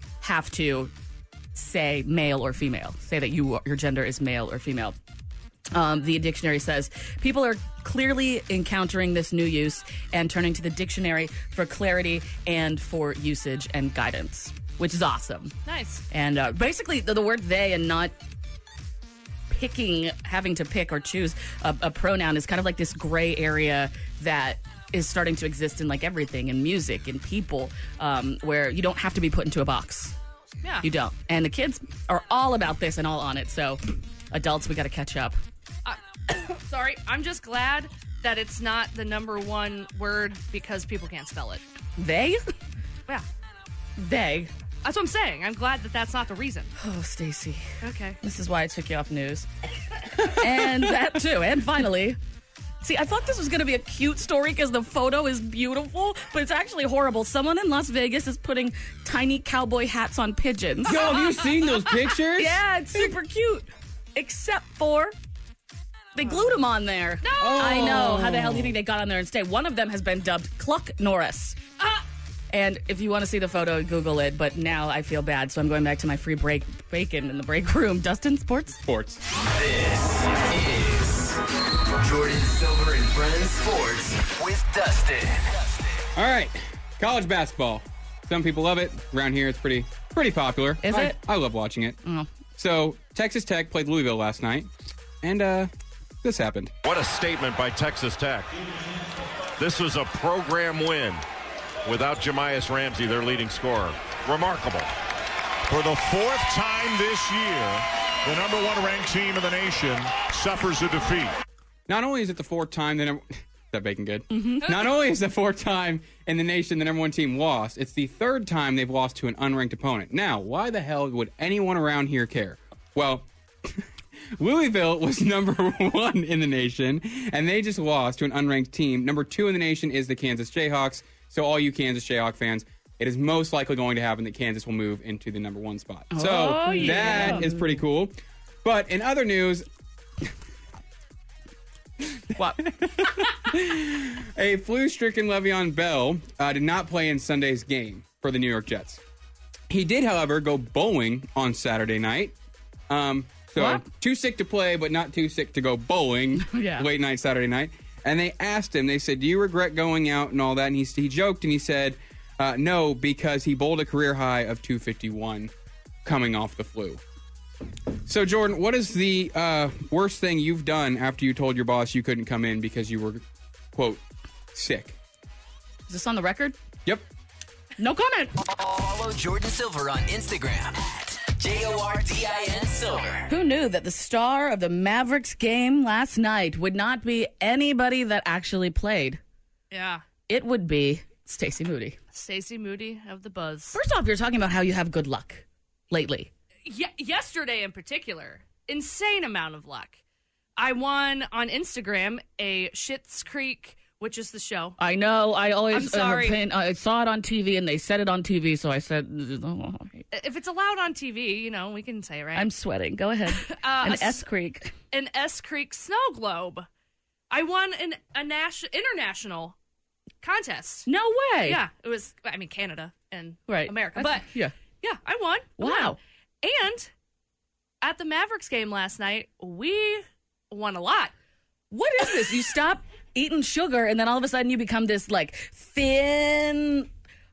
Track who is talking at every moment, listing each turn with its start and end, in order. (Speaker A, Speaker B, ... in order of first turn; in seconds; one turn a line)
Speaker A: 0.2-0.9
Speaker A: 1.5-5.0
Speaker A: 5.7-15.6
Speaker B: 15.7-16.0
Speaker A: 16.1-18.1
Speaker A: 19.5-30.2
Speaker A: 30.8-35.4
Speaker B: 35.9-41.6
Speaker A: 42.0-42.4
Speaker A: 44.0-44.5
Speaker B: 44.8-46.7
Speaker A: 46.8-47.7
Speaker B: 47.8-48.2
Speaker A: 48.2-49.5
Speaker A: 50.2-52.2
Speaker A: 52.8-61.0
Speaker C: 60.9-63.1
Speaker B: 60.9-62.0
Speaker A: 62.4-65.2
Speaker A: 66.2-71.6
Speaker B: 66.3-66.6
Speaker B: 67.2-68.1
Speaker C: 67.4-68.8
Speaker A: 72.5-78.8
Speaker C: 78.8-79.2
Speaker D: 79.4-81.4
Speaker D: 82.0-86.0
Speaker C: 86.2-92.0
Speaker A: 90.8-91.2
Speaker A: 92.0-92.3
Speaker C: 92.6-94.7
Speaker C: 95.2-95.7
Speaker C: 96.2-96.7
Speaker E: 96.8-98.5
Speaker E: 99.6-101.2
Speaker E: 101.8-104.9
Speaker F: 105.7-111.3
Speaker E: 105.7-107.0
Speaker C: 111.9-123.8
Speaker A: 114.3-114.7
Speaker B: 114.7-115.0
Speaker C: 124.4-139.7
Speaker A: 136.1-137.8
Speaker B: 136.8-137.3
Speaker C: 142.1-149.0
Speaker C: 149.7-152.3
Speaker C: 152.9-165.5
Speaker A: 153.6-153.8
Speaker A: 156.4-156.9
Speaker C: 166.0-167.0
Speaker C: 168.1-174.0
Speaker C: 174.5-175.0
Speaker A: 175.9-176.6
Speaker A: 177.8-178.3
Speaker D: 178.4-183.3
Speaker A: 183.3-189.2
Speaker B: 189.7-190.0
Speaker A: 190.3-192.0
Speaker B: 192.1-193.8
Speaker A: 193.7-196.3
Speaker B: 196.7-200.0
Speaker B: 200.6-204.8
Speaker A: 204.8-210.1
Speaker B: 205.7-206.4
Speaker B: 210.1-212.5
Speaker A: 212.3-214.7
Speaker B: 213.3-214.2
Speaker B: 214.9-216.7
Speaker B: 217.3-219.6
Speaker B: 220.2-220.9
Speaker A: 220.9-221.6
Speaker B: 221.4-224.3
Speaker A: 223.5-224.5
Speaker B: 224.8-226.9
Speaker A: 225.6-226.0
Speaker B: 227.8-231.1
Speaker A: 231.7-236.9